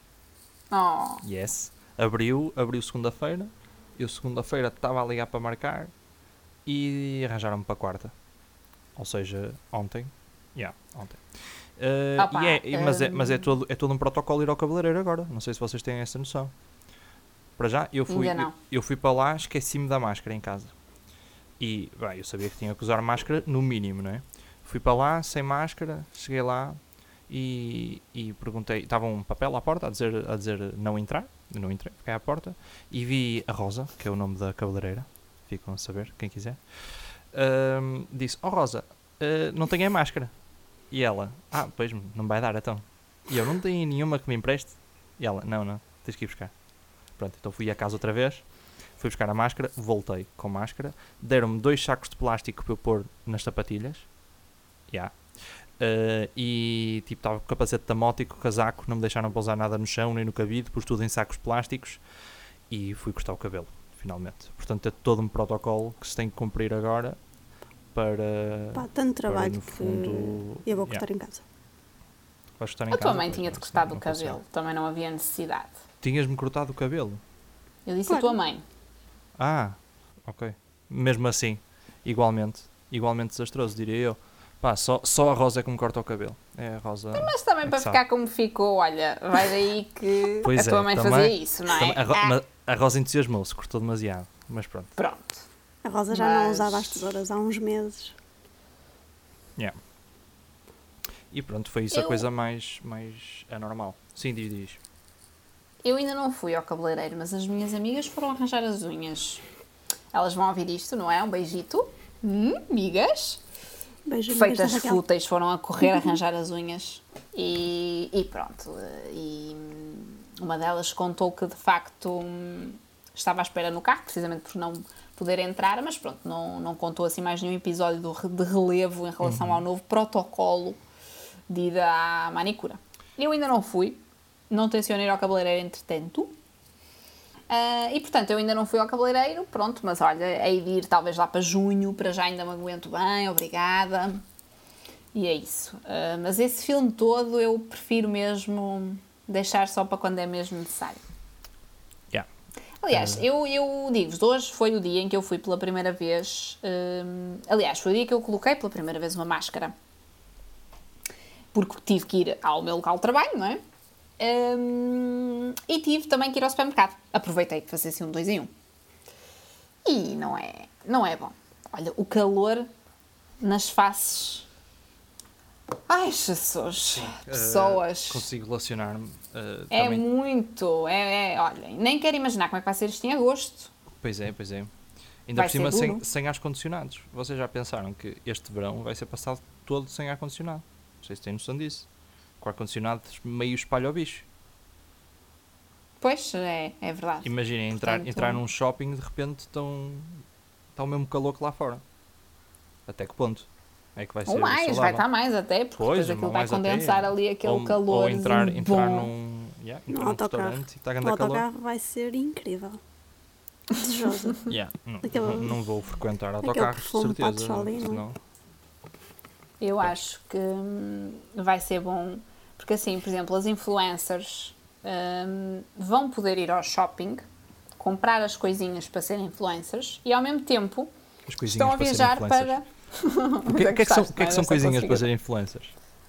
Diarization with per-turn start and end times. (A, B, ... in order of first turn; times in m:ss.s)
0:00.7-0:01.2 A
0:01.2-0:05.9 B
0:06.7-0:08.1 B
0:09.0-0:16.5 B
0:12.2-0:13.4 A
0:17.6-0:20.7 B
0:18.1-0:18.5 A
0:21.6-0:36.6 B
0:37.3-0:40.3 B
0:40.9-0:46.5 B
0:47.2-0:48.4 B
0:49.0-0:54.1 B
0:54.9-0:55.2 B
0:55.8-1:02.0 B
1:02.7-1:07.2 B
1:07.9-1:11.0 B
1:08.8-1:11.4 C
1:12.6-1:14.4 B
1:12.9-1:15.8 A
1:16.0-1:17.2 B
1:17.9-1:18.6 A
1:18.1-1:18.4 C
1:19.4-1:28.0 B
1:27.2-1:32.4 A
1:30.4-1:34.9 B
1:35.0-1:35.4 A
1:35.8-1:38.2 C
1:36.1-1:37.0 A
1:41.3-1:44.8 B
1:41.9-1:42.2 A
1:45.8-1:49.4 A
1:50.1-1:53.4 A
1:54.1-1:55.0 C
1:54.3-2:10.8 A
2:09.2-2:09.6 B
2:11.5-2:16.4 A
2:17.5-2:24.2 A
2:25.1-2:31.0 A
2:32.8-2:39.7 A
2:32.9-2:33.2 B
2:41.5-2:43.6 A
2:44.2-2:48.5 A
2:49.9-2:52.7 A
2:53.4-2:54.5 A
2:55.9-2:58.3 A
2:56.9-3:00.0 B
2:59.7-3:03.7 A
3:04.0-3:04.7 B
3:05.3-3:11.9 B
3:05.4-3:06.0 A
3:12.4-3:14.3 B
3:16.0-3:18.4 A
3:17.2-3:20.2 B
3:20.8-3:21.8 B
3:22.9-3:25.0 B
3:24.3-3:29.1 A
3:25.8-3:31.4 B
3:29.9-3:32.8 C
3:33.7-3:34.4 C
3:34.5-3:38.2 B
3:35.0-3:35.6 C
3:36.4-3:38.0 C
3:39.6-3:47.2 A
3:47.8-3:50.9 A
3:51.3-3:52.6 B
3:51.5-3:55.1 A
3:53.5-3:55.7 B